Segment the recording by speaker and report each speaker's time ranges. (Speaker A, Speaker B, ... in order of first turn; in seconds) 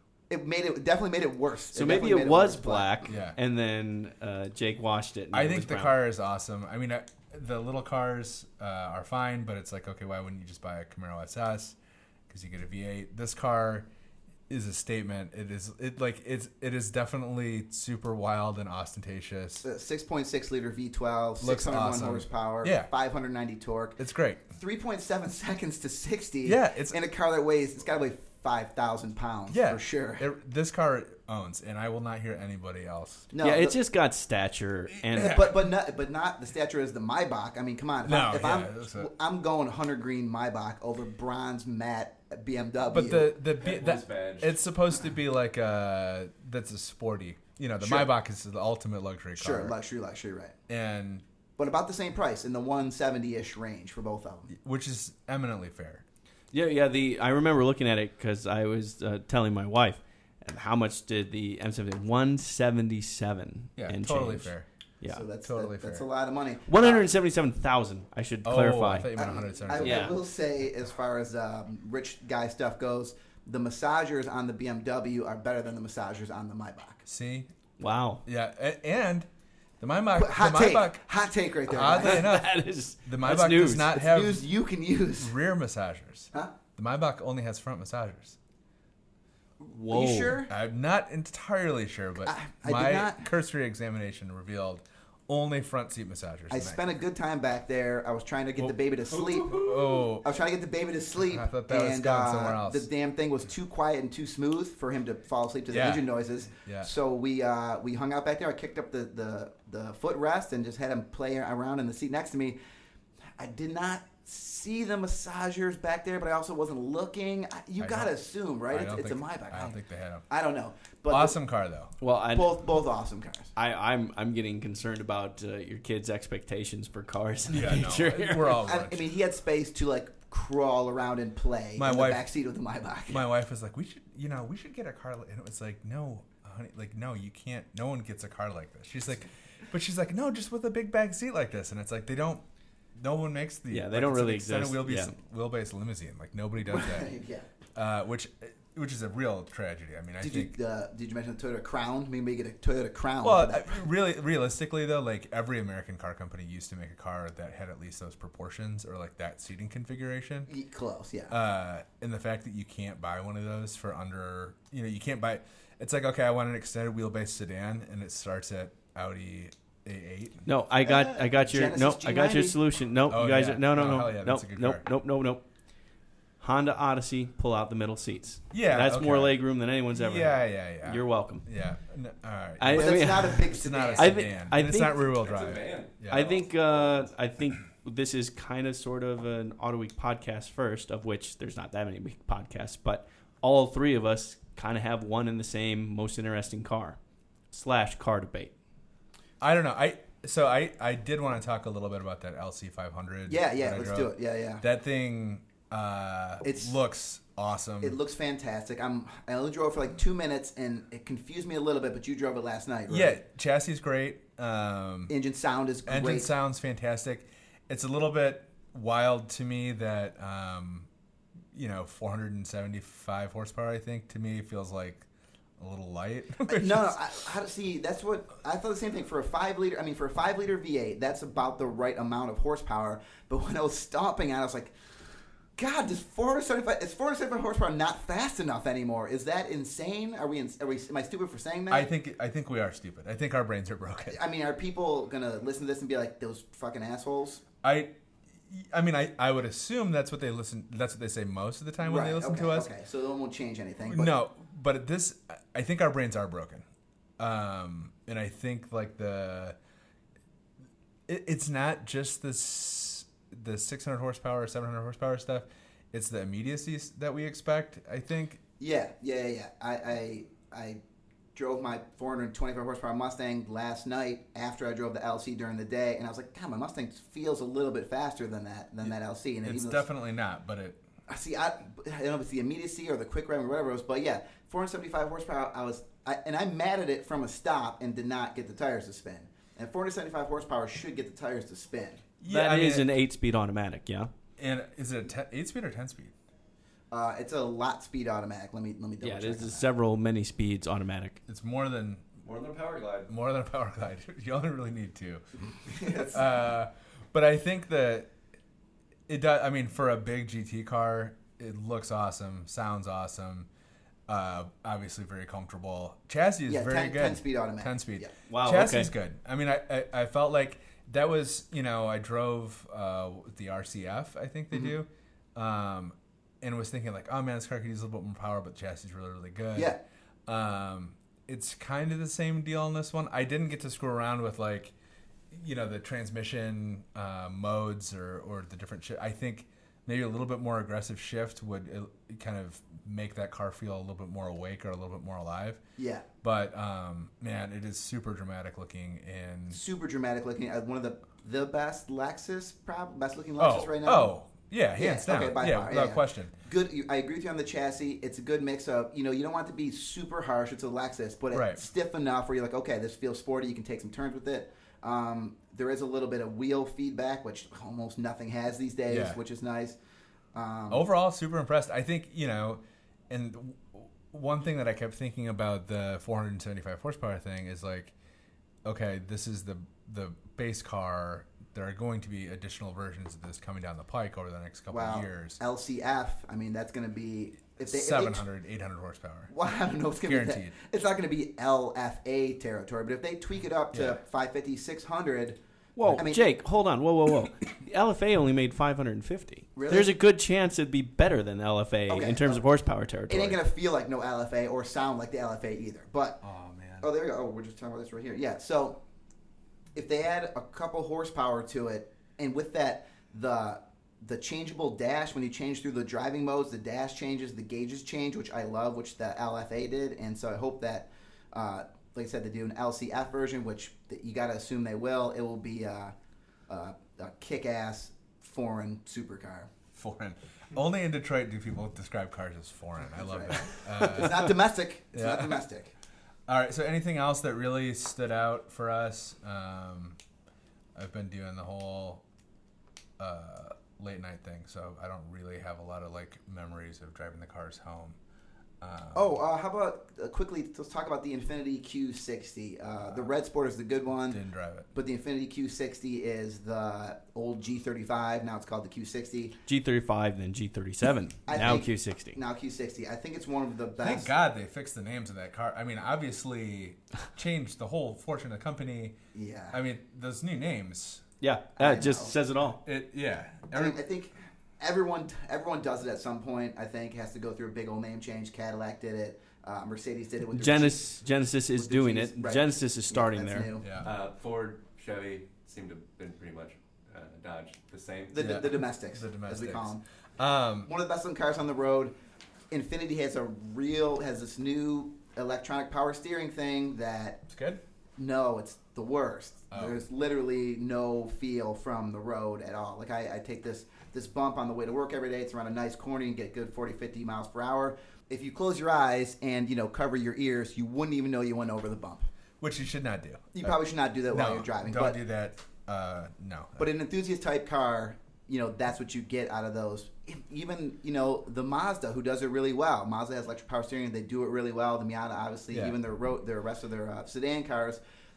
Speaker A: 0.3-3.1, 19.6-24.0, 24.6-30.3, 33.3-33.8, 35.1-43.4, 47.8-48.1, 49.4-50.6, 51.6-54.5, 65.1-67.1, 69.2-77.0, 80.1-82.3, 83.9-85.3, 89.9-90.5, 92.3-93.3, 96.5-99.7, 100.2-112.6, 113.4-119.8, 120.3-121.4, 122.3-123.5, 128.7-133.2, 146.7-147.5, 150.2-153.8, 160.5-161.3, 170.8-172.6, 182.7-184.3, 203.3-204.7, 206.4-206.7, 207.8-213.2, 215.1-216.3, 226.4-234.8, 235.6-241.9, 244.1-247.4, 251.8-254.1, 268.6-270.8, 271.4-279.8, 281.1-292.0, 296.9-299.7, 316.5-318.1, 329.6-329.8, 345.8-346.0, 349.5-354.1, 354.8-369.8, 370.3-370.9, 384.7-388.2, 389.3-396.2, 399.6-399.9, 401.9-402.4, 403.1-406.2, 406.8-408.8, 409.8-425.9, 426.5-429.5, 432.9-435.7, 448.9-454.2, 454.7-459.4, 461.3-464.1, 469.1-469.6, 471.6-472.1, 473.5-483.8, 488.1-489.8, 490.6-491.9, 492.5-497.2, 498.0-512.1, 513.4-515.0, 516.6-527.8
Speaker B: 1.7-6.0, 33.4-35.4, 56.5-65.2, 66.7-69.1, 69.8-70.2, 77.8-78.2, 82.0-84.0, 89.7-90.4, 122.0-122.6, 123.5-128.6, 143.7-145.1, 170.5-181.5, 182.6-185.3, 186.1-197.0, 197.5-198.6, 292.3-294.1, 299.0-301.2, 318.3-318.9, 395.8-403.4, 459.4-462.2, 471.2-472.6, 480.3-483.5
Speaker C: 3.1-3.4, 5.3-11.8, 12.3-13.9, 14.5-19.6, 21.4-22.9, 24.0-24.4, 26.4-27.0, 29.5-33.3, 35.0-35.5, 38.0-39.1, 42.9-49.8, 50.7-51.2, 54.5-56.0, 63.8-64.7, 65.4-66.1, 68.4-70.1, 77.1-77.5, 78.2-79.3, 79.8-84.5, 85.2-88.4, 90.5-96.8, 98.6-100.3, 101.2-102.9, 105.7-106.9, 117.8-118.1, 118.7-120.3, 121.1-121.9, 127.5-129.1, 131.8-132.3, 133.1-147.2, 147.8-150.5, 153.2-160.5, 161.3-170.5, 173.1-174.8, 178.5-186.4, 199.4-208.0, 212.9-215.1, 215.9-220.9, 221.5-225.1, 225.6-227.1, 241.7-244.2, 247.6-252.7, 253.8-256.7, 257.2-259.6, 261.1-268.4, 278.8-280.8, 292.2-292.9, 294.4-296.1, 301.3-302.2, 303.1-305.2, 306.1-308.1, 309.1-313.5, 314.1-334.7, 335.3-345.6, 346.2-349.6, 353.4-356.3, 361.3-361.6, 368.9-369.2, 370.7-377.9, 378.6-385.4, 387.6-389.3, 390.0-390.5, 393.7-394.0, 406.2-406.9, 429.8-434.3, 434.9-435.4, 436.3-440.0, 440.8-442.0, 443.0-448.0, 448.6-449.2, 454.1-454.7, 463.8-469.0, 469.5-471.1, 472.6-473.8, 483.6-483.9, 488.1-490.7, 497.3-497.6, 499.5-499.8, 512.4-513.6, 514.1-516.7, 525.5-525.8
Speaker D: 43.6-44.6, 99.1-99.7, 185.2-187.1, 302.2-303.1, 483.8-488.5